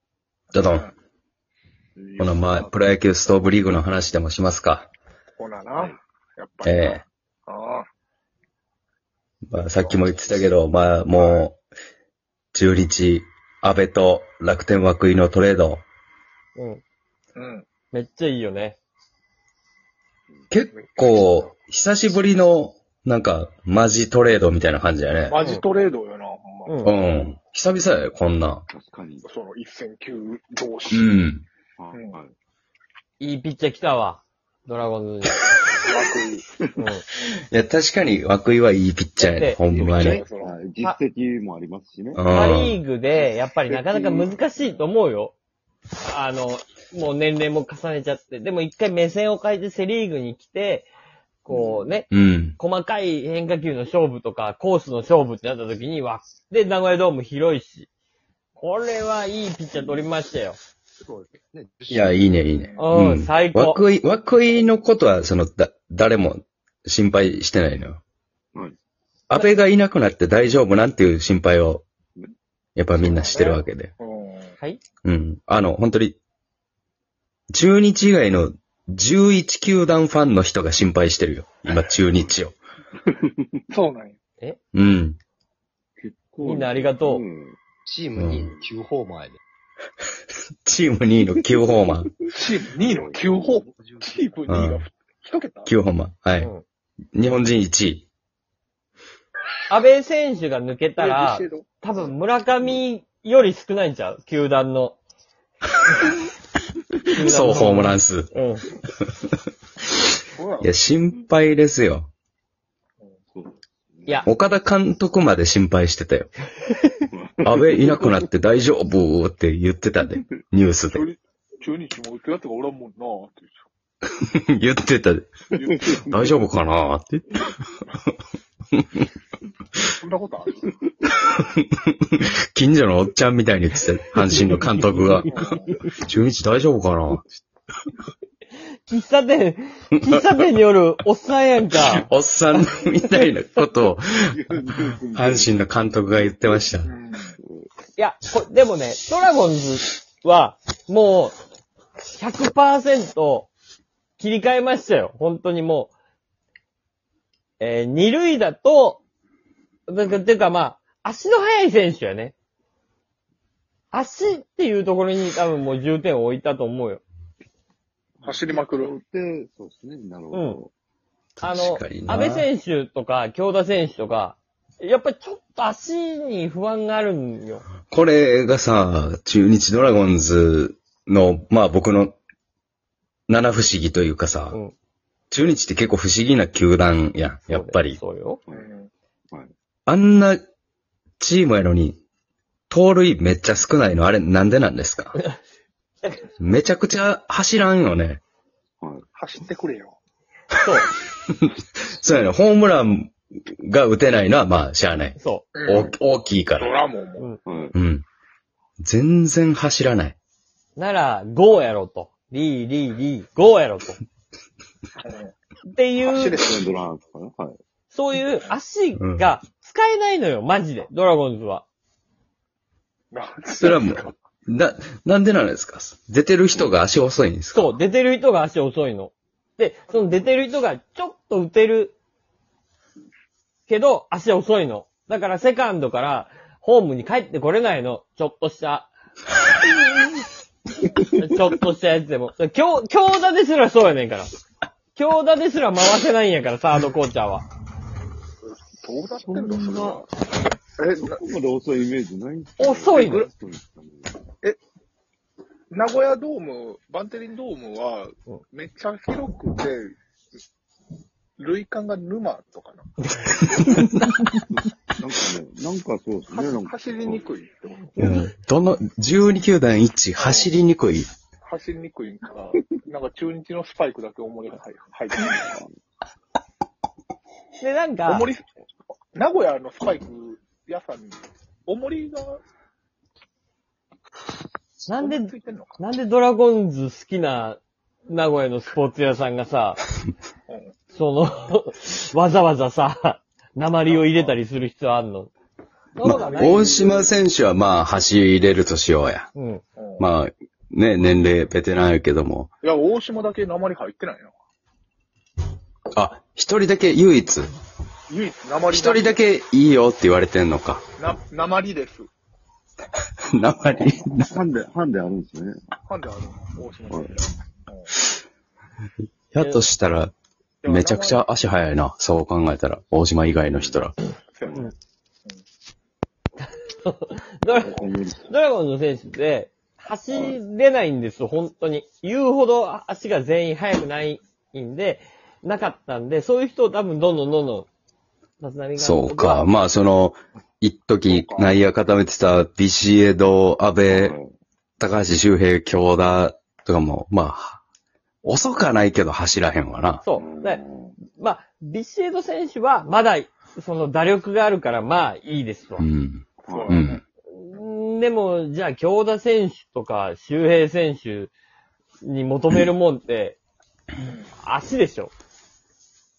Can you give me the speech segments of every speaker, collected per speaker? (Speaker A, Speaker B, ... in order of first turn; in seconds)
Speaker A: 0.5-0.9, 2.2-4.9, 6.6-7.0, 9.4-11.6, 12.5-15.8, 20.5-25.4, 26.8-28.6, 30.9-31.4, 37.3-40.2, 42.1-42.8, 52.1-52.6, 61.9-68.0, 69.3-71.8, 72.8-73.9, 75.0-76.2, 77.5-82.5, 84.7-85.2, 88.2-88.5, 90.6-92.1, 94.5-94.8, 95.7-96.5, 97.1-98.0, 107.2-108.3, 110.6-112.1, 114.2-116.3, 117.4-121.0, 124.2-125.3, 126.0-128.1, 128.7-129.1, 131.3-137.2, 141.8-146.9, 171.4-172.5, 177.9-182.1, 183.3-184.6, 185.3-188.0, 189.9-190.4, 191.2-192.0, 192.7-195.2, 196.4-198.2, 201.3-206.8, 207.7-208.0, 208.8-210.2, 218.9-219.3, 223.6-227.7, 263.5-264.4, 268.0-271.1, 296.0-299.3, 300.0-302.5, 305.9-307.5, 308.7-310.8, 313.2-314.3, 319.3-320.1, 320.6-323.9, 338.8-344.1, 344.8-347.6, 348.2-350.0, 355.8-357.0
Speaker B: 1.9-2.8, 28.7-29.3, 31.8-32.3, 39.7-42.2, 43.9-44.2, 51.5-51.9, 83.1-83.6, 86.0-87.6, 92.8-93.7, 113.3-114.2, 117.1-118.2, 125.8-126.2, 134.3-135.3, 144.3-145.6, 168.2-170.7, 207.4-207.7, 216.2-217.6, 249.1-250.0, 250.8-254.2, 264.5-267.2, 275.2-275.7, 314.2-315.6, 316.9-317.2, 323.5-323.9, 324.4-324.7, 327.5-328.3, 330.1-330.4, 343.9-344.3, 350.1-350.9, 356.5-356.8
Speaker C: 5.4-7.8, 9.6-10.0, 11.1-11.5, 17.4-17.6, 20.7-21.3, 25.3-26.8, 29.2-31.1, 35.8-36.4, 39.7-40.5, 62.5-62.9, 73.0-74.5, 83.7-84.2, 92.3-95.7, 101.0-102.1, 110.3-110.7, 120.9-123.7, 125.5-126.0, 129.9-130.7, 135.0-135.8, 146.8-147.3, 168.2-168.9, 188.5-188.9, 199.1-199.9, 205.6-205.9, 206.6-207.3, 215.0-215.3, 216.0-216.7, 223.1-224.1, 248.4-250.2, 250.8-251.2, 255.7-259.9, 261.4-262.9, 266.3-267.9, 270.2-270.5, 271.4-275.5, 278.1-278.4, 279.1-282.4, 284.9-285.8, 290.5-290.7, 293.9-294.4, 296.3-297.1, 299.8-300.1, 302.6-304.3, 308.1-309.2, 311.0-312.1, 315.9-317.9, 320.6-321.2, 324.4-324.7, 341.1-341.6, 356.4-357.0
Speaker D: 16.5-16.8, 17.9-18.8, 26.6-26.9, 33.2-35.4, 36.8-37.0, 39.2-39.6, 42.3-45.3, 46.0-50.9, 51.4-57.9, 58.6-60.6, 62.8-63.8, 86.4-87.2, 99.7-105.0, 107.1-108.7, 138.9-142.1, 142.6-143.2, 147.9-151.3, 152.2-153.5, 154.2-155.9, 157.6-159.0, 159.9-162.3, 163.9-167.0, 170.3-170.6, 171.4-177.7, 187.5-188.4, 200.6-200.9, 205.2-205.4, 210.8-214.0, 215.7-216.4, 217.9-221.6, 227.5-231.9, 233.7-238.9, 240.9-244.3, 244.9-247.4, 252.6-253.3, 263.0-263.6, 267.9-268.3, 277.6-278.3, 284.9-289.8, 290.9-295.3, 295.9-296.8, 299.3-299.6, 326.4-337.7, 338.4-339.5, 350.0-355.9, 357.3-361.3, 362.0-363.4, 364.4-365.1
Speaker E: 61.0-62.2, 87.8-89.4, 93.8-94.3